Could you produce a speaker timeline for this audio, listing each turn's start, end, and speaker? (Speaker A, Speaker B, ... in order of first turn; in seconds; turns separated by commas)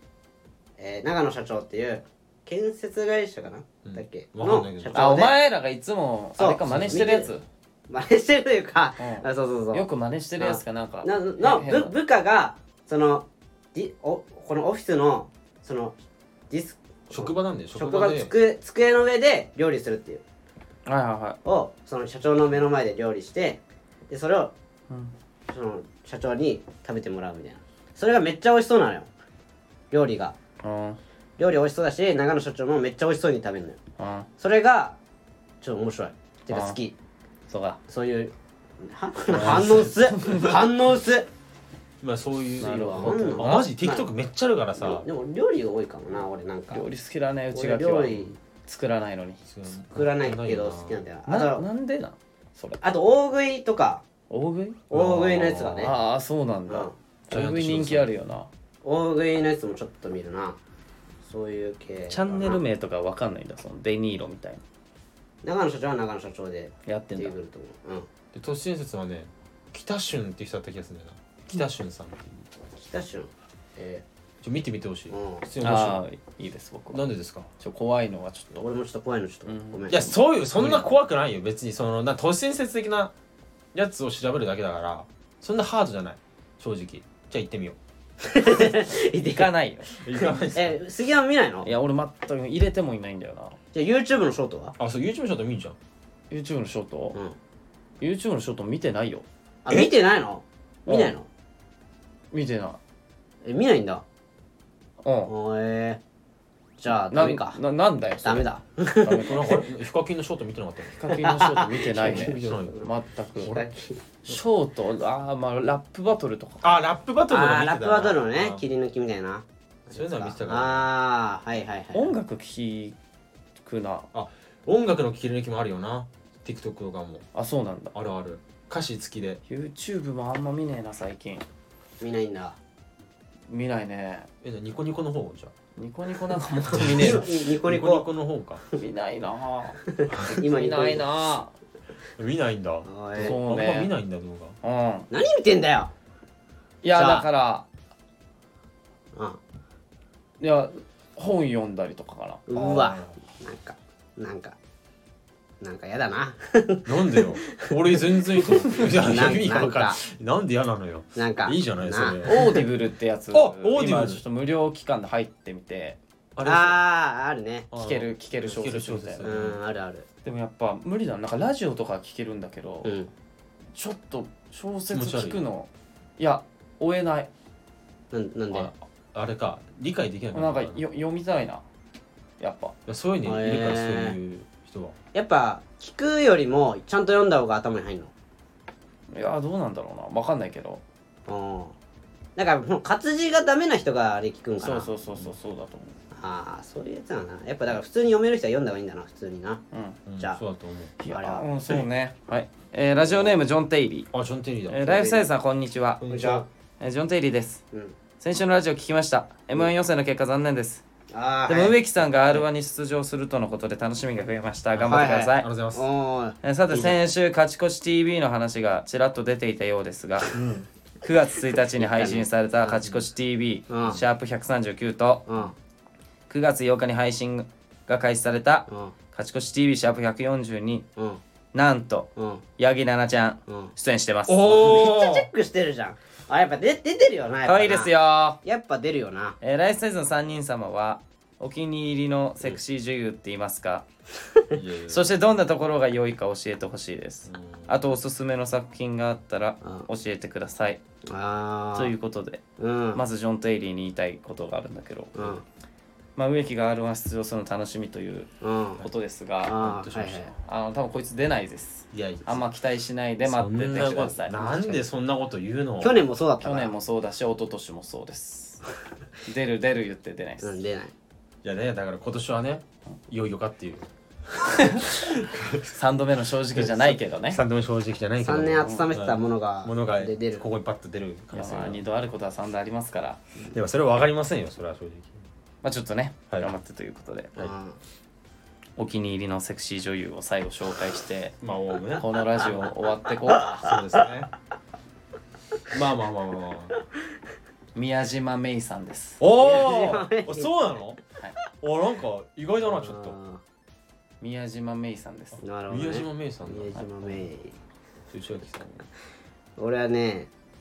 Speaker A: 0.8-5.3, Speaker B: 3.8-5.0, Speaker C: 4.9-7.4, Speaker A: 6.4-7.3, Speaker B: 6.7-7.0, Speaker A: 7.9-9.8, Speaker C: 9.0-11.9, Speaker A: 10.4-15.9, Speaker A: 16.5-20.2, Speaker B: 17.1-18.3, Speaker C: 20.9-21.4, Speaker A: 21.4-24.5, Speaker A: 25.5-29.1, Speaker A: 29.9-30.3, Speaker C: 30.6-31.0, Speaker A: 31.4-33.8, Speaker C: 34.0-34.3, Speaker A: 34.4-35.0, Speaker A: 35.6-36.9, Speaker C: 36.5-36.8, Speaker C: 37.5-37.8, Speaker A: 37.9-41.3, Speaker C: 39.3-40.6, Speaker B: 39.3-39.9, Speaker B: 42.0-45.0, Speaker C: 42.6-43.7, Speaker A: 42.6-44.1, Speaker A: 44.8-46.8, Speaker C: 46.7-49.4, Speaker A: 47.5-48.4, Speaker B: 49.5-51.0, Speaker A: 49.9-51.6, Speaker C: 51.3-52.8, Speaker A: 52.8-54.0, Speaker C: 54.3-54.9, Speaker A: 54.9-55.9, Speaker B: 54.9-55.7, Speaker C: 55.4-58.5, Speaker A: 56.7-56.9, Speaker B: 57.3-58.1, Speaker A: 58.8-60.6, Speaker A: 61.2-62.6, Speaker C: 62.1-64.6, Speaker A: 65.4-68.1, Speaker C: 66.8-67.3, Speaker B: 68.3-72.3, Speaker A: 72.8-74.0, Speaker B: 74.4-76.0, Speaker A: 75.1-75.4, Speaker C: 75.6-77.0, Speaker B: 76.9-77.5, Speaker C: 77.6-78.6, Speaker A: 78.5-80.1, Speaker C: 79.5-80.8, Speaker B: 79.9-83.1, Speaker B: 83.7-87.8, Speaker A: 88.2-89.5, Speaker C: 88.6-89.9, Speaker B: 90.0-90.8, Speaker A: 90.2-91.7, Speaker C: 91.6-93.6, Speaker A: 93.7-94.7, Speaker B: 94.8-95.8, Speaker C: 96.3-97.2, Speaker C: 98.0-99.2, Speaker A: 99.6-101.3, Speaker C: 100.8-101.1, Speaker C: 102.3-102.8, Speaker A: 103.4-104.0, Speaker C: 105.0-105.3, Speaker A: 105.3-106.0, Speaker A: 106.8-107.6, Speaker C: 107.0-108.5, Speaker A: 108.2-109.6, Speaker C: 109.0-109.6, Speaker B: 109.1-111.0, Speaker C: 110.9-113.5, Speaker A: 111.1-112.8, Speaker B: 112.0-112.8, Speaker B: 113.4-113.7, Speaker A: 113.5-114.0, Speaker C: 114.2-116.8, Speaker B: 116.6-118.6, Speaker A: 117.3-122.1, Speaker B: 119.9-120.9, Speaker C: 121.9-123.0, Speaker C: 123.6-124.1, Speaker B: 124.1-127.2, Speaker C: 127.3-127.9, Speaker B: 127.9-129.4, Speaker C: 129.5-131.4, Speaker A: 132.0-132.6, Speaker C: 133.5-134.3, Speaker B: 134.4-135.5, Speaker C: 135.8-137.3, Speaker B: 136.7-138.6, Speaker A: 136.9-138.1, Speaker C: 138.7-141.5, Speaker A: 139.9-141.1, Speaker B: 142.2-144.6, Speaker A: 142.8-143.4, Speaker C: 143.2-143.9, Speaker C: 144.6-145.1, Speaker A: 145.1-145.9, Speaker C: 146.8-147.7, Speaker A: 146.9-147.2, Speaker A: 149.1-149.4, Speaker C: 150.4-152.9, Speaker A: 152.5-154.6, Speaker B: 152.5-153.1, Speaker A: 155.6-160.0, Speaker B: 156.8-162.6, Speaker A: 161.2-162.2, Speaker C: 162.2-166.0, Speaker B: 163.3-164.2, Speaker B: 166.3-166.8, Speaker A: 166.4-167.7, Speaker B: 167.7-169.6, Speaker C: 167.7-169.3, Speaker A: 169.2-170.1, Speaker C: 170.2-173.0, Speaker A: 172.8-173.1, Speaker C: 173.7-177.3, Speaker B: 174.9-175.4, Speaker A: 178.1-178.7, Speaker B: 178.5-180.8, Speaker C: 180.3-181.6, Speaker C: 182.4-182.7, Speaker B: 182.8-184.9, Speaker A: 183.2-184.2, Speaker A: 185.1-188.1, Speaker C: 189.1-190.8, Speaker A: 191.2-191.7, Speaker A: 192.3-194.9, Speaker C: 194.6-195.9, Speaker A: 196.1-199.6, Speaker C: 199.7-200.0, Speaker B: 200.1-200.9, Speaker C: 201.0-204.1, Speaker A: 201.1-201.5, Speaker B: 204.1-204.8, Speaker C: 204.7-206.0, Speaker A: 204.8-205.3, Speaker B: 206.0-206.4, Speaker A: 206.1-206.4, Speaker C: 206.8-207.6, Speaker C: 208.2-210.8, Speaker A: 211.1-211.8, Speaker C: 211.5-215.5, Speaker B: 214.7-215.8, Speaker A: 214.8-217.0, Speaker C: 216.4-220.4, Speaker C: 221.0-225.2, Speaker A: 221.7-222.9, Speaker A: 223.7-224.0, Speaker A: 225.3-225.5, Speaker C: 226.3-230.8, Speaker A: 228.7-228.9, Speaker C: 231.5-234.6, Speaker A: 232.2-232.4, Speaker A: 233.5-233.7, Speaker B: 234.3-235.3, Speaker A: 234.4-239.4, Speaker C: 237.4-238.4, Speaker C: 239.4-243.8, Speaker B: 244.5-245.1, Speaker C: 244.9-250.8, Speaker B: 247.3-247.9, Speaker A: 251.1-251.9, Speaker C: 251.7-252.4, Speaker A: 252.6-253.0, Speaker C: 252.9-255.4, Speaker A: 255.1-255.4, Speaker C: 256.1-259.6, Speaker A: 258.4-258.8, Speaker A: 259.4-260.3, Speaker B: 259.5-260.3, Speaker C: 260.3-264.8, Speaker B: 261.9-262.4, Speaker B: 263.2-266.0, Speaker A: 265.8-266.7, Speaker C: 266.4-268.6, Speaker C: 269.2-270.5, Speaker A: 270.4-270.9, Speaker B: 271.4-273.9, Speaker B: 274.4-275.8, Speaker C: 274.4-274.9, Speaker C: 275.7-277.4, Speaker B: 276.5-281.8, Speaker A: 278.2-280.4, Speaker C: 281.3-283.2, Speaker B: 283.5-285.2, Speaker C: 285.6-287.3, Speaker A: 287.4-287.8, Speaker C: 288.8-291.3, Speaker B: 291.4-292.7, Speaker C: 292.0-293.7, Speaker B: 293.4-294.3, Speaker B: 295.7-296.8, Speaker C: 297.7-299.2, Speaker B: 299.2-301.0, Speaker A: 299.4-300.5, Speaker B: 301.6-303.1, Speaker A: 302.6-303.4, Speaker C: 304.2-305.4, Speaker A: 305.4-307.6, Speaker B: 305.7-306.8, Speaker C: 306.7-307.2, Speaker B: 308.1-308.9, Speaker A: 309.6-310.3